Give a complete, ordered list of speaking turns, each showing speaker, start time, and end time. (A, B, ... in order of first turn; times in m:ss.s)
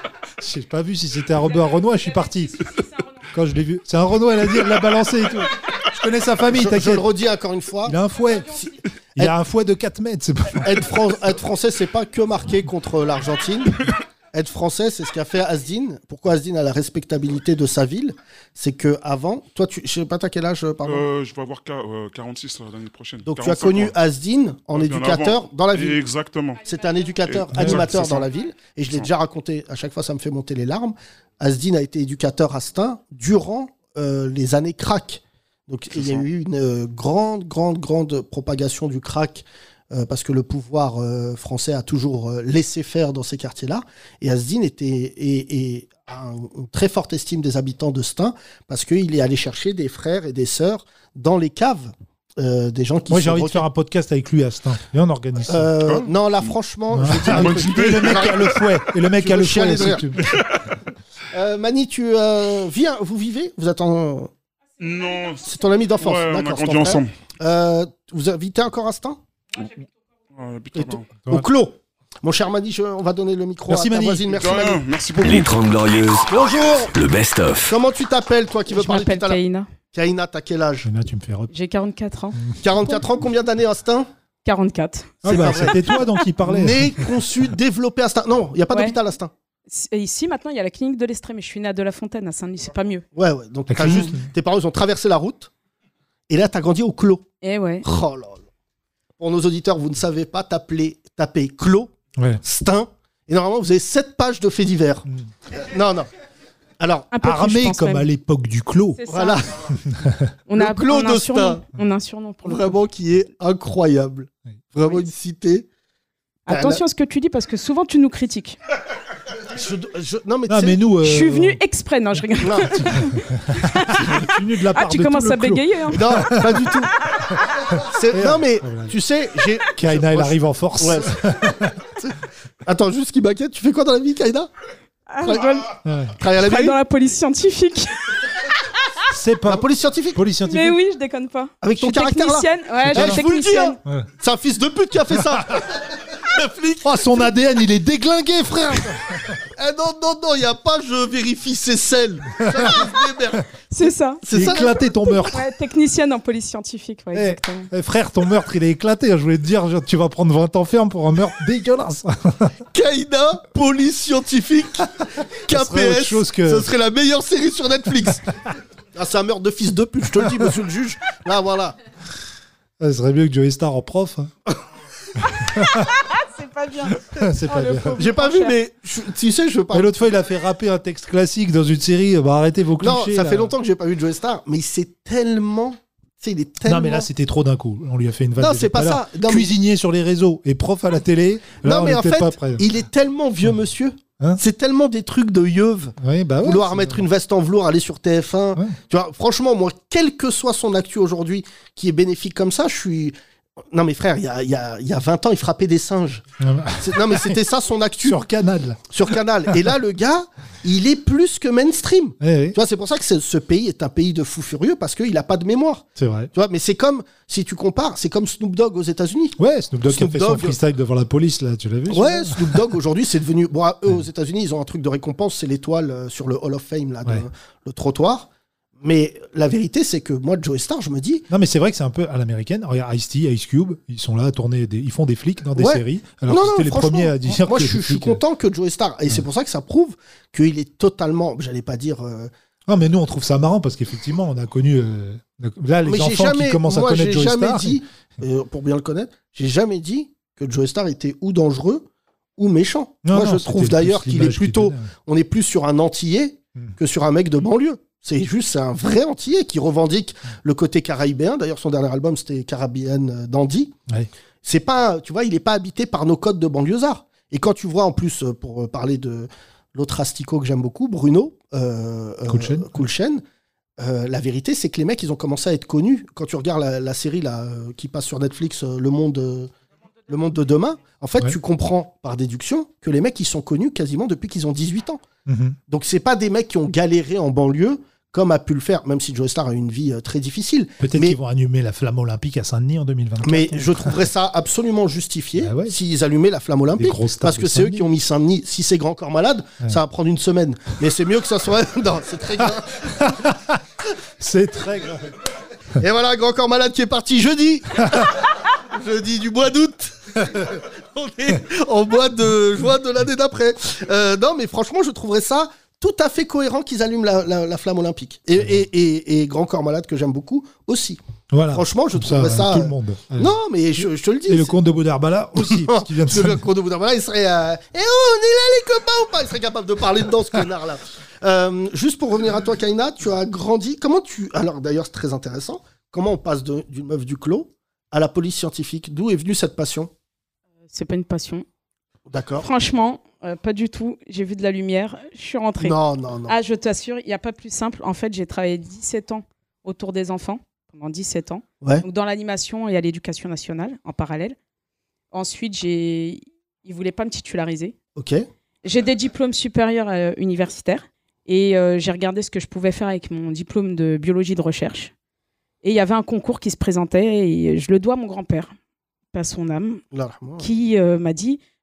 0:00.4-0:02.7 A
0:01.6-0:03.2 B
0:03.3-0:07.1 A
0:06.5-0:08.0 C
0:07.8-0:08.6 A
0:08.5-0:09.4 C
0:09.2-0:10.8 A
0:10.6-0:21.0 C
0:20.8-0:24.0 D
0:23.3-0:26.0 C
0:24.7-0:26.7 D
0:26.7-0:53.6 C
0:27.2-0:28.3 D
0:27.5-0:28.0 A
0:36.0-0:36.2 D
0:53.1-0:55.7 A
0:55.5-0:58.6 C
0:55.8-0:56.6 D
0:56.9-1:00.4 A
0:57.1-0:58.6 D
0:59.2-1:00.1 C
1:01.3-1:04.3 C
1:04.8-1:07.1 D
1:05.5-1:09.2 C
1:10.3-1:11.1 D
1:10.8-1:14.8 C
1:13.7-1:14.4 A
1:14.4-1:15.5 D
1:15.2-1:17.8 E
1:16.3-1:16.9 C
1:17.7-1:19.4 C
1:18.7-1:19.7 B
1:19.9-1:20.9 C
1:20.8-1:21.5 A
1:21.5-1:22.4 B
1:22.6-1:24.1 C
1:24.4-1:26.1 B
1:25.2-1:27.1 A
1:25.2-1:29.3 C
1:28.7-1:29.0 B
1:29.7-1:33.0 B
1:33.2-1:35.5 C
1:33.7-1:34.3 A
1:36.3-1:37.2 C
1:37.4-1:37.9 B
1:37.8-1:38.4 C
1:39.2-1:41.9 C
1:42.2-1:42.4 A
1:42.4-1:46.1 C
1:46.8-1:47.1 C
1:47.1-1:48.1 B
1:47.2-1:49.0 A
1:49.0-1:49.4 B
1:49.1-1:49.5 C
1:49.8-1:50.3 A
1:50.5-1:52.8 B
1:50.6-1:51.6 C
1:52.4-1:55.7 C
1:56.5-1:58.6 B
1:56.5-1:56.8 C
1:59.5-2:00.8 C
2:00.5-2:01.6 A
2:01.0-2:06.3 B
2:02.4-2:03.0 C
2:02.8-2:06.7 A
2:05.9-2:06.9 C
2:07.5-2:09.0 A
2:07.8-2:14.5 C
2:09.8-2:11.7 A
2:15.1-2:15.7 B
2:15.2-2:15.6 C
2:15.8-2:16.2 A
2:16.2-2:16.8 C
2:16.3-2:18.9 B
2:19.1-2:20.8 A
2:19.5-2:20.2 C
2:20.4-2:23.8 B
2:21.6-2:27.3 C
2:22.9-2:23.2 A
2:25.1-2:25.4 A
2:26.8-2:29.4 A
2:29.2-2:35.2 C
2:32.4-2:32.9 A
2:33.7-2:34.7 B
2:34.3-2:35.5 A
2:35.2-2:37.7 B
2:37.1-2:42.6 A
2:42.7-2:48.3 C
2:45.5-2:46.7 A
2:49.0-2:51.8 C
2:52.8-2:54.3 A
2:55.4-2:55.9 A
2:55.8-2:58.6 B
2:57.1-2:58.0 A
2:58.0-3:00.0 C
2:59.7-3:03.5 A
3:02.8-3:07.1 C
3:06.6-3:12.7 A
3:08.4-3:09.5 C
3:11.6-3:23.2 C
3:16.0-3:17.0 A
3:23.7-3:26.2 C
3:26.4-3:27.4 A
3:26.8-3:28.2 C
3:28.0-3:28.9 A
3:28.9-3:39.4 C
3:32.2-3:32.6 A
3:36.0-3:36.3 A
3:39.4-3:42.7 A
3:39.9-3:40.6 C
3:41.9-3:48.3 C
3:48.8-3:51.3 C
3:51.3-3:58.2 A
3:55.6-4:02.3 C
4:02.7-4:07.8 A
4:05.8-4:11.9 C
4:12.4-4:23.7 C
4:13.0-4:14.9 A
4:24.4-4:33.2 C
4:32.3-4:32.8 A
4:33.8-4:39.5 C
4:40.1-4:45.0 C
4:45.3-4:45.6 A
4:45.7-4:51.2 C
4:50.8-4:54.0 A
4:53.2-5:03.2 C
4:55.4-4:55.8 A
4:56.8-4:57.9 A
5:03.0-5:03.6 A
5:04.2-5:05.1 A
5:05.8-5:21.0 C
5:21.3-5:23.3 A
5:21.5-5:24.5 C
5:24.3-5:26.4 A
5:25.4-5:39.9 C
5:40.7-5:41.4 B
5:42.1-5:42.5 C
5:42.4-5:45.8 B
5:45.6-5:46.4 C
5:46.3-5:54.4 B
5:55.1-5:57.8 B
5:58.0-5:58.3 C
5:58.6-6:04.9 B
6:05.6-6:08.5 B
6:09.1-6:09.8 B
6:09.9-6:10.5 C
6:10.4-6:11.4 B